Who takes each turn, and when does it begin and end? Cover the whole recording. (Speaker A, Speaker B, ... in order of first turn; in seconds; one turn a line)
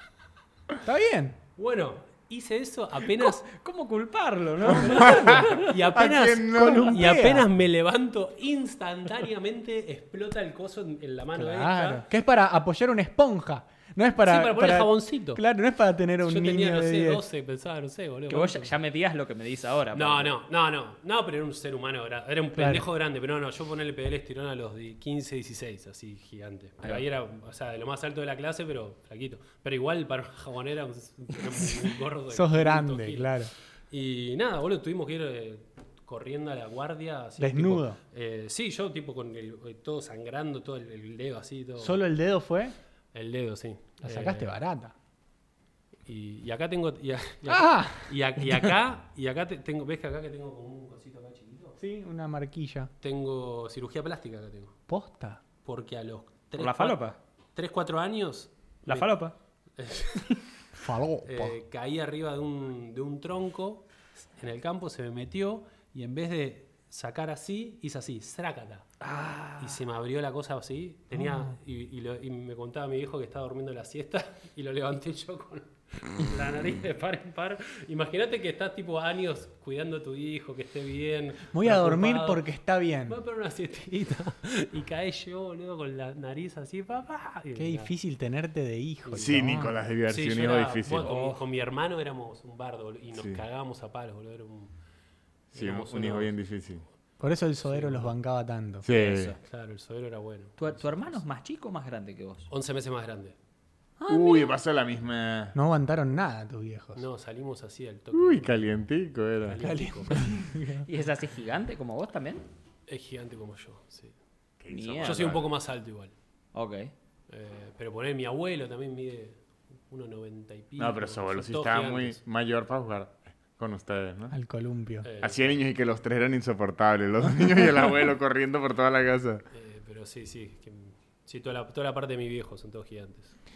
Speaker A: 0.8-1.4
Speaker B: 1.6-3.5
Speaker C: 3.2-5.7
Speaker D: 4.7-7.0
Speaker B: 4.8-12.0
Speaker A: 6.5-7.5
Speaker A: 11.3-17.2
Speaker B: 14.2-15.4
Speaker B: 16.2-18.7
Speaker C: 18.3-20.3
Speaker B: 19.9-42.0
Speaker A: 22.6-22.9
Speaker A: 32.3-33.5
Speaker A: 37.4-38.0
Speaker A: 41.8-42.7
Speaker B: 43.1-44.5
Speaker A: 44.0-44.9
Speaker B: 46.0-51.8
Speaker A: 47.5-48.1
Speaker A: 51.8-52.9
Speaker B: 53.0-54.8
Speaker A: 54.9-55.4
Speaker B: 55.6-57.0
Speaker C: 56.5-57.2
Speaker B: 57.5-59.1
Speaker C: 58.9-59.3
Speaker B: 59.8-60.4
Speaker A: 60.8-61.6
Speaker B: 61.2-68.9
Speaker C: 69.0-69.8
Speaker B: 69.6-82.4
Speaker A: 71.1-71.5
Speaker A: 81.5-83.2
Speaker B: 83.1-87.9
Speaker A: 87.5-89.7
Speaker B: 89.0-94.7
Speaker D: 89.1-91.1
Speaker C: 91.0-91.4
Speaker B: 95.5-96.3
Speaker D: 95.5-96.8
Speaker A: 97.2-98.8
Speaker B: 97.6-98.1
Speaker D: 98.8-99.3
Speaker C: 98.9-99.4
Speaker B: 99.4-100.8
Speaker C: 100.6-102.5
Speaker B: 102.5-103.3
Speaker A: 104.0-104.3
Speaker C: 104.1-104.4
Speaker D: 104.1-105.5
Speaker A: 105.5-107.0
Speaker B: 107.0-108.7
Speaker D: 108.1-109.6
Speaker B: 109.4-110.2
Speaker A: 109.6-110.8
Speaker C: 110.8-112.4
Speaker B: 112.9-114.1
Speaker D: 114.6-115.4
Speaker C: 114.7-115.3
Speaker B: 115.0-116.1
Speaker C: 116.5-116.9
Speaker B: 117.3-122.2
Speaker D: 120.8-124.3
Speaker A: 124.3-125.1
Speaker B: 125.0-125.6
Speaker D: 125.2-129.4
Speaker B: 129.5-133.3